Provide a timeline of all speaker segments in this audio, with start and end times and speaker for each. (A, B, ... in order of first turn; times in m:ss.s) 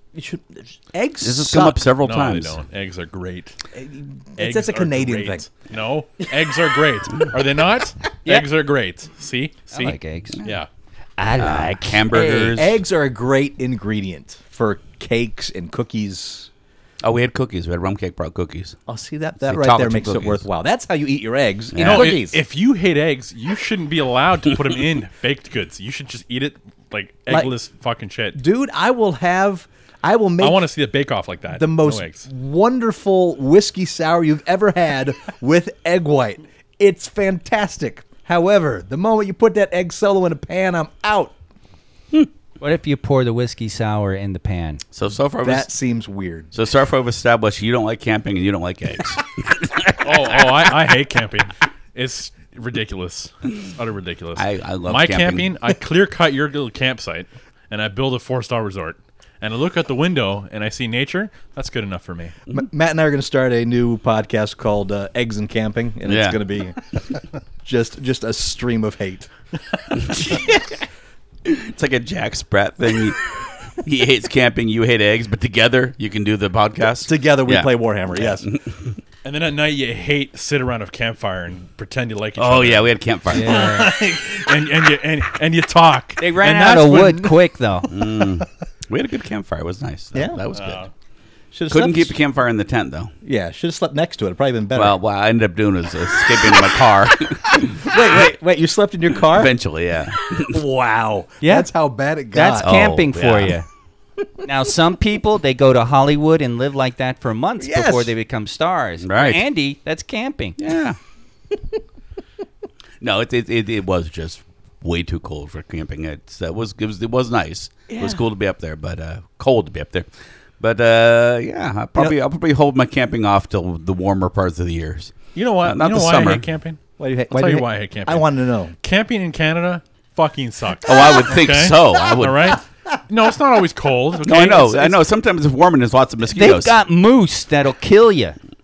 0:00.1-0:01.8 A
0:01.2-0:02.6 B
0:02.0-0:03.6 C
0:03.7-0:05.4 A
0:04.4-0:10.7 C
0:09.7-0:10.4 D
0:11.2-0:12.5 D
0:11.4-0:12.8 B
0:12.1-0:16.5 A
0:17.0-0:18.8 B
0:18.9-0:22.4 A
0:19.4-0:20.4 B
0:21.7-0:22.3 B
0:21.8-0:28.4 C
0:28.3-0:30.7 A
0:30.4-0:32.3 C
0:31.5-0:41.3 A
0:42.6-0:44.8 D
0:44.9-0:45.6 B
0:45.4-0:46.5 A
0:46.5-0:50.3 B
0:50.0-1:02.4 C
0:54.4-0:55.5 B
1:02.5-1:09.3 A
1:06.0-1:06.4 B
1:09.9-1:10.8 B
1:11.4-1:13.2 B
1:13.8-1:19.0 B
1:17.0-1:18.4 A
1:19.2-1:27.4 C
1:22.4-1:23.7 B
1:23.3-1:23.9 D
1:26.2-1:27.9 D
1:27.9-1:30.8 B
1:30.1-1:30.4 A
1:30.5-1:30.9 C
1:31.5-1:32.2 A
1:31.7-1:33.1 B
1:33.2-1:35.0 A
1:34.7-1:37.9 B
1:37.5-1:39.5 A
1:39.2-1:40.6 B
1:40.4-1:42.8 A
1:41.4-1:41.7 D
1:42.3-1:43.7 D
1:42.6-1:43.6 B
1:44.4-1:50.6 D
1:47.6-1:48.1 A
1:49.0-1:49.4 B
1:50.6-1:51.0 B
1:53.0-2:00.1 B
1:57.9-1:58.2 A
2:00.6-2:06.4 B
2:05.3-2:06.8 C
2:07.0-2:08.7 A
2:07.3-2:08.3 C
2:08.8-2:15.0 C
2:10.8-2:12.6 B
2:14.2-2:16.7 B
2:16.3-2:18.4 D